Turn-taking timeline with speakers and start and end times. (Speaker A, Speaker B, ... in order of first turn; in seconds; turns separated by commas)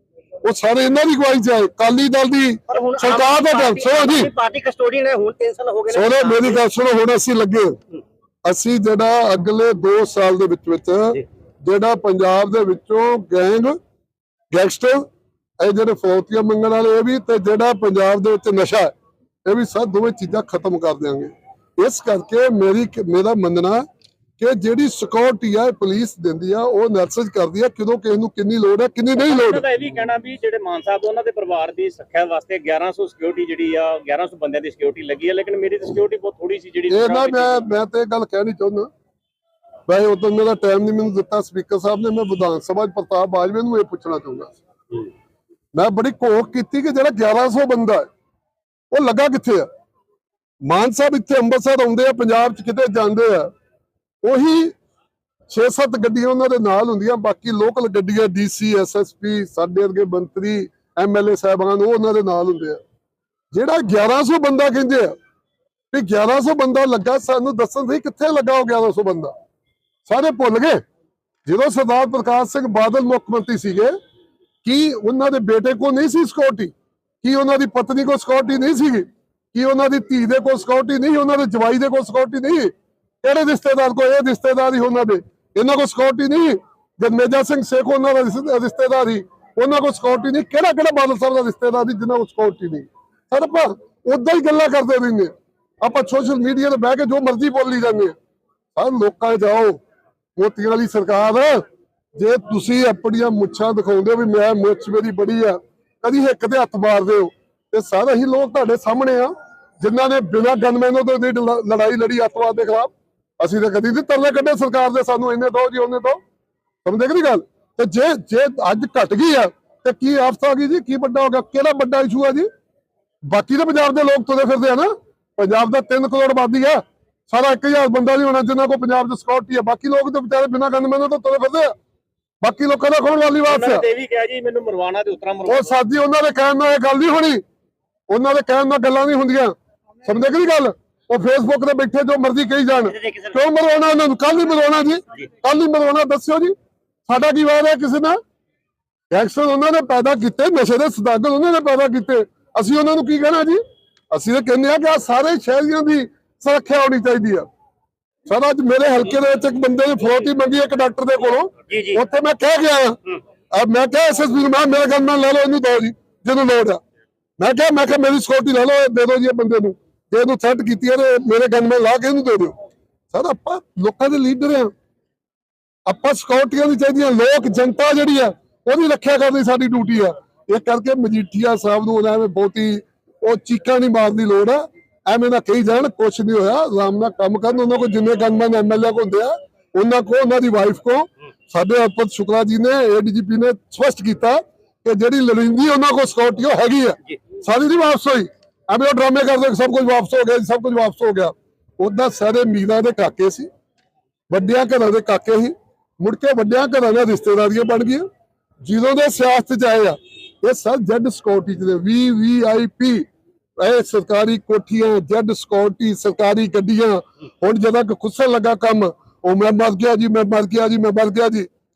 Speaker A: 0.4-4.3, Speaker B: 2.7-6.6, Speaker A: 5.9-7.8, Speaker A: 8.5-13.8, Speaker A: 14.5-15.1, Speaker A: 15.6-18.9, Speaker A: 19.5-23.9, Speaker A: 24.4-29.6, Speaker C: 29.2-37.7, Speaker A: 36.9-38.9, Speaker A: 39.9-44.6, Speaker A: 45.8-48.1, Speaker A: 48.9-49.7, Speaker A: 50.6-53.5, Speaker A: 54.2-54.7, Speaker A: 55.5-62.8, Speaker A: 63.5-65.1, Speaker A: 65.9-69.3, Speaker A: 70.1-70.8, Speaker A: 71.5-73.9, Speaker A: 74.6-82.7, Speaker A: 83.2-95.3, Speaker A: 95.8-98.1, Speaker A: 98.8-99.8, Speaker A: 100.4-101.6, Speaker A: 102.2-116.2, Speaker A: 116.8-122.5, Speaker A: 123.3-131.7, Speaker A: 132.4-133.8, Speaker C: 133.5-135.8, Speaker A: 135.5-137.4, Speaker A: 138.1-139.5, Speaker A: 140.0-146.5, Speaker B: 142.9-143.4, Speaker A: 147.1-148.2, Speaker A: 149.1-153.6, Speaker A: 154.1-157.5, Speaker A: 158.3-163.0, Speaker A: 163.5-166.8, Speaker A: 167.4-172.5, Speaker A: 173.1-174.7, Speaker A: 175.9-203.5, Speaker A: 204.3-208.1, Speaker A: 208.6-213.1, Speaker A: 213.6-221.5